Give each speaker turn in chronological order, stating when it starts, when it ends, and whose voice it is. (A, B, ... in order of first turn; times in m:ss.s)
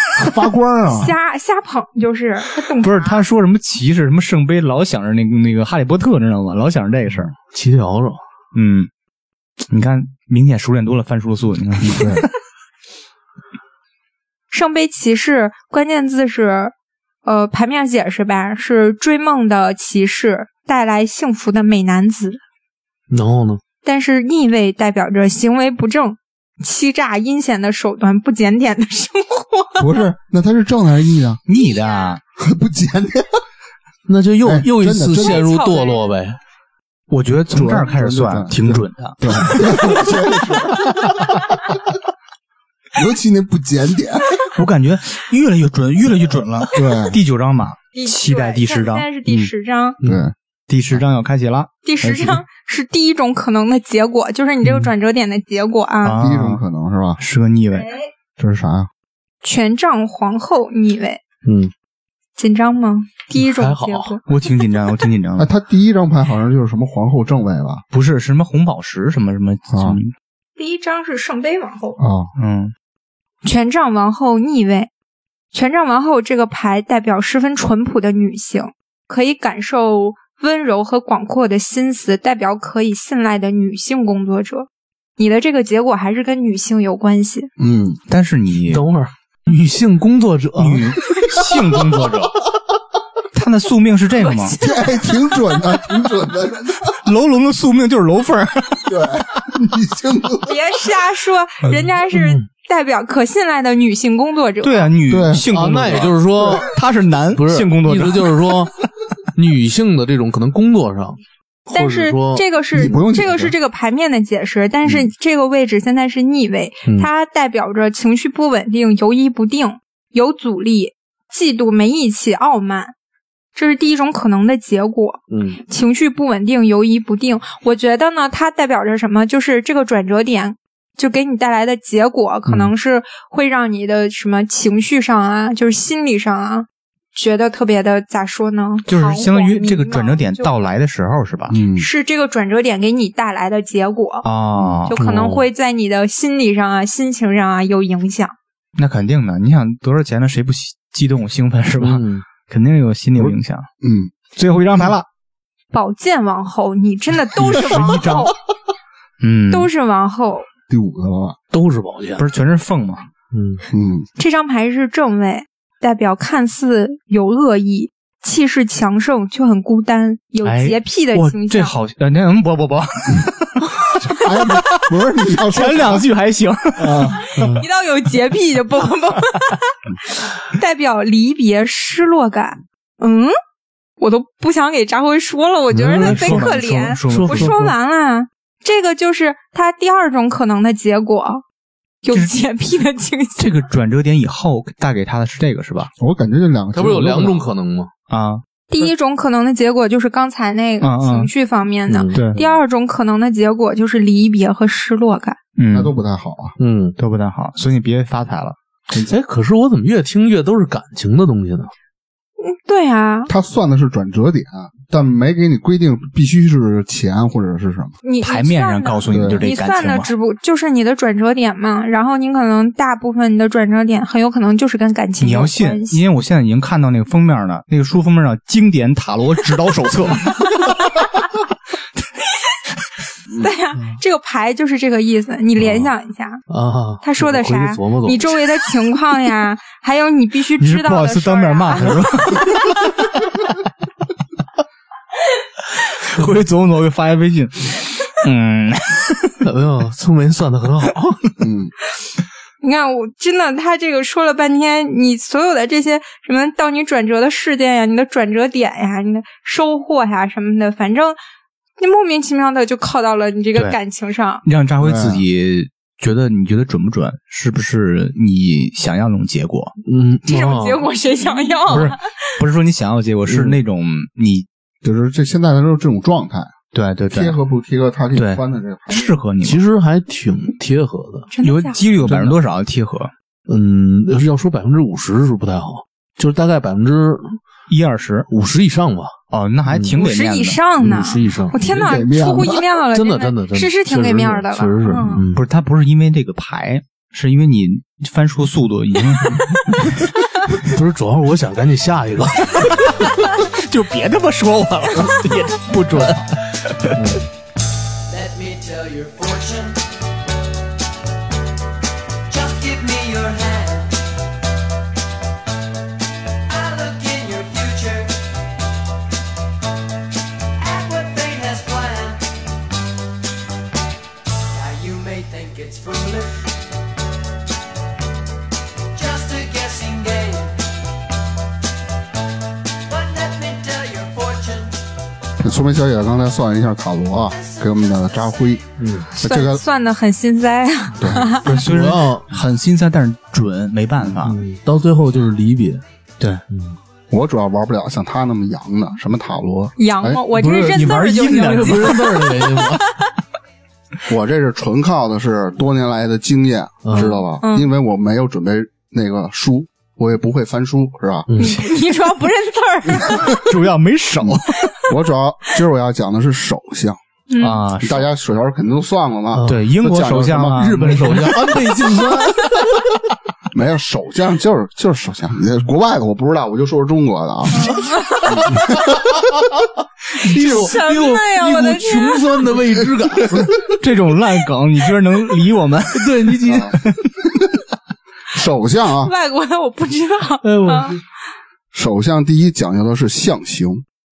0:00.2-0:01.2 A
0:00.9-0:03.2 B
0:02.8-0:07.3 C
0:07.5-0:08.2 D
0:08.5-0:08.9 C
0:09.7-0:12.3 C
0:11.8-0:12.2 A
0:14.5-0:22.4 B
0:23.1-0:23.6 D
0:23.8-0:30.0 B
0:29.8-0:31.4 A
0:31.5-0:32.2 C
0:31.5-0:32.2 B
0:32.4-0:33.4 A
0:34.1-0:36.4 D
0:34.4-0:35.5 A
0:35.2-0:36.1 B
0:37.1-0:40.0 C
0:37.5-0:41.1 A
0:43.0-0:44.5 A
0:44.5-0:49.1 C
0:46.7-0:47.2 A
0:47.9-0:50.0 B
0:50.0-0:50.3 A
0:50.7-0:51.7 C
0:51.8-0:56.2 B
0:52.0-0:52.3 A
0:56.0-0:56.6 C
0:56.2-0:57.2 A
0:57.2-0:57.9 C
0:57.7-0:58.1 B
0:58.4-0:58.9 A
0:59.4-1:01.2 B
1:01.4-1:01.7 D
1:02.4-1:04.2 B
1:03.4-1:04.2 D
1:04.3-1:05.5 C
1:05.4-1:07.8 A
1:07.9-1:10.1 C
1:09.7-1:10.0 A
1:10.6-1:12.0 B
1:12.0-1:12.3 A
1:12.4-1:12.7 C
1:13.4-1:14.9 B
1:15.5-1:27.5 B
1:27.6-1:28.0 A
1:28.1-1:28.9 C
1:28.7-1:31.0 D
1:30.6-1:32.4 C
1:33.3-1:34.6 C
1:34.2-1:35.1 B
1:34.6-1:37.0 A
1:37.0-1:38.9 C
1:38.9-1:40.5 A
1:40.4-1:44.9 B
1:42.1-1:42.4 D
1:44.6-1:48.5 C
1:45.1-1:45.5 A
1:45.5-1:46.8 D
1:47.3-1:48.8 D
1:49.3-1:52.5 D
1:51.7-2:02.9 B
1:52.7-1:53.6 A
2:03.6-2:20.6 B
2:05.3-2:05.6 D
2:18.9-2:21.6 C
2:21.5-2:21.9 A
2:21.8-2:24.3 B
2:24.2-2:25.0 C
2:24.6-2:24.8 A
2:24.9-2:28.3 B
2:25.0-2:25.5 D
2:28.8-2:33.7 C
2:31.8-2:32.3 D
2:33.2-2:34.1 A
2:34.4-2:35.1 C
2:35.7-2:38.3 B
2:37.4-2:38.3 C
2:39.2-2:39.7 C
2:39.5-2:40.5 B
2:40.7-2:41.4 A
2:41.5-2:42.3 D
2:42.2-2:43.1 C
2:43.3-2:43.6 D
2:43.7-2:44.1 A
2:44.2-2:51.8 B
2:50.4-2:57.3 C
2:54.0-2:56.1 A
2:56.8-2:57.2 A
2:56.9-2:57.6 D
2:57.2-3:03.4 B
3:04.0-3:11.4 B
3:05.7-3:07.7 D
3:06.0-3:07.7 C
3:12.0-3:13.5 B
3:13.4-3:15.9 C
3:16.0-3:17.4 A
3:16.7-3:17.9 D
3:18.1-3:18.4 C
3:18.7-3:25.4 B
3:20.8-3:21.3 C
3:21.9-3:22.5 D
3:22.1-3:22.4 C
3:25.6-3:25.9 C
3:25.7-3:26.6 A
3:26.6-3:27.0 D
3:27.0-3:28.6 C
3:28.9-3:31.7 D
3:32.4-3:33.3 B
3:33.3-3:37.9 A
3:38.0-3:46.0 B
3:38.2-3:40.1 C
3:39.1-3:39.5 A
3:45.2-3:50.7 C
3:53.4-3:56.4 B
3:56.5-3:58.4 D
3:57.0-4:02.6 B
4:00.6-4:03.3 C
4:06.1-4:09.4 C
4:09.4-4:11.4 D
4:11.4-4:11.7 A
4:12.6-4:21.2 B
4:21.8-4:24.4 B
4:24.4-4:29.8 C
4:24.8-4:25.2 A
4:29.9-4:30.8 D
4:30.2-4:32.4 B
4:31.7-4:34.5 C
4:33.3-4:33.6 D
4:34.8-4:36.5 A
4:36.7-4:37.4 C
4:37.1-4:39.2 A
4:38.2-4:39.6 C
4:39.4-4:41.3 D
4:41.3-4:41.8 B
4:41.4-4:43.1 C
4:42.0-4:42.4 D
4:43.5-4:47.4 D
4:47.7-4:48.3 C
4:48.3-4:49.1 D
4:49.3-4:50.6 C
4:49.7-4:50.0 D
4:49.9-4:55.2 B
4:50.8-4:51.9 D
4:51.7-4:52.6 A
4:52.9-4:55.4 D
4:55.3-5:00.1 C
5:00.6-5:03.1 D
5:02.5-5:07.2 C
5:06.9-5:07.2 D
5:08.1-5:09.9 E
5:12.3-5:14.1 E
5:16.5-5:18.2 E
5:20.6-5:22.3 E
5:24.5-5:26.6 E
5:28.9-5:30.6 E
5:32.9-5:34.8 E
5:35.4-5:38.6 A
5:37.3-5:38.6 E
5:38.8-5:39.1 D
5:39.1-5:41.5 B
5:39.2-5:39.6 A
5:41.0-5:41.4 A
5:41.4-5:44.4 C
5:41.5-5:42.3 D
5:44.2-5:45.8 D
5:46.5-5:46.8 D
5:47.1-5:50.2 A
5:49.8-5:52.6 B
5:50.3-5:52.8 D
5:50.7-5:52.0 C
5:54.1-6:01.3 A
5:56.8-5:57.2 D
5:57.4-5:57.7 B
6:01.3-6:01.6 D
6:01.4-6:03.4 B
6:03.0-6:03.4 A
6:03.2-6:04.7 C
6:04.2-6:07.0 A
6:07.3-6:07.6 B
6:07.4-6:08.1 C
6:07.8-6:11.4 A
6:09.3-6:09.7 D
6:09.4-6:11.5 C
6:10.6-6:12.5 D
6:13.5-6:19.0 A
6:17.5-6:18.4 B
6:18.4-6:23.7 D
6:20.2-6:22.4 B
6:23.7-6:27.0 C
6:25.9-6:26.8 D
6:26.4-6:27.5 A
6:28.3-6:29.1 A
6:29.0-6:31.0 B
6:30.4-6:31.0 D
6:31.7-6:33.8 A